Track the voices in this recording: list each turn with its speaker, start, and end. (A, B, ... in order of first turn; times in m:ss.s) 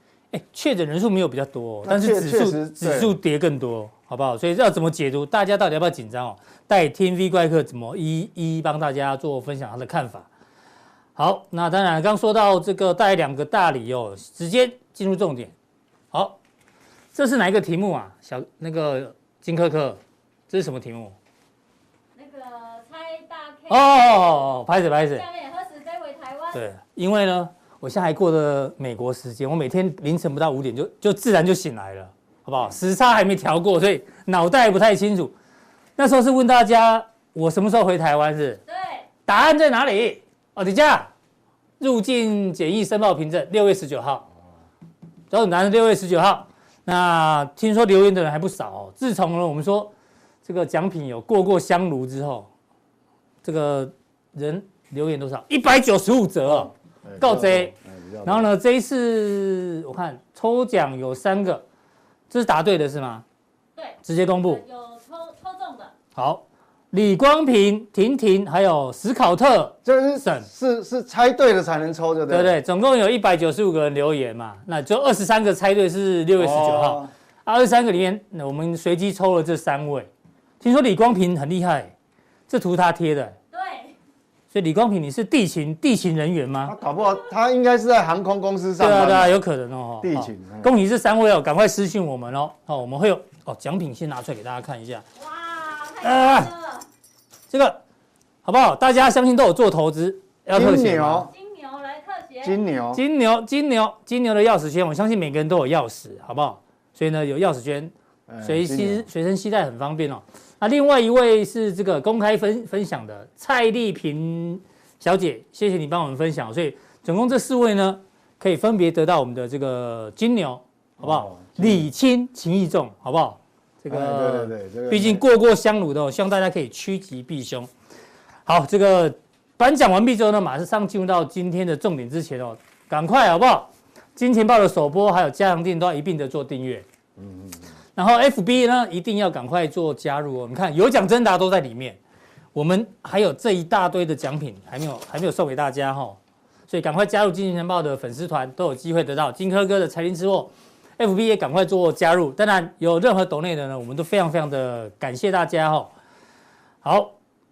0:00.3-0:10.3 A
0:01.8-0:03.1 B
0:11.2-0:15.5 A
0:16.1-0:16.4 A
0:17.1-0:21.1 A
0:22.2-0:24.5 C
0:23.7-0:25.2 A
0:25.1-0:26.6 C
0:26.5-0:35.3 A
0:36.0-0:38.6 A
0:38.7-0:39.1 C
0:39.3-0:41.1 A
0:41.8-0:44.3 A
0:45.3-0:49.9 A
0:50.4-0:52.5 A
0:53.4-1:01.6 A
0:56.5-0:58.5 B
1:02.3-1:03.2 A
1:03.8-1:05.9 C
1:04.0-1:04.6 A
1:06.2-1:10.5 A
1:09.8-1:12.5 B
1:12.3-1:20.1 A
1:16.4-1:17.1 B
1:20.6-1:21.9 A
1:22.5-1:23.4 A
1:23.5-1:23.9 C
1:24.5-1:26.7 A
1:26.6-1:29.4 B
1:28.8-1:35.0 A
1:30.0-1:30.7 B
1:35.2-1:36.8 C
1:36.0-1:36.5 A
1:37.5-1:37.8 A
1:38.4-1:41.3 A
1:40.5-1:41.3 B
1:41.3-1:42.6 C
1:42.4-1:43.0 B
1:42.9-1:47.9 A
1:48.3-1:49.0 B
1:48.4-2:07.7 A
2:01.0-2:01.8 B
2:03.9-2:05.2 B
2:08.4-2:16.8 A
2:17.2-2:17.5 B
2:18.0-2:22.0 A
2:22.5-2:35.9 A
2:36.8-2:37.1 A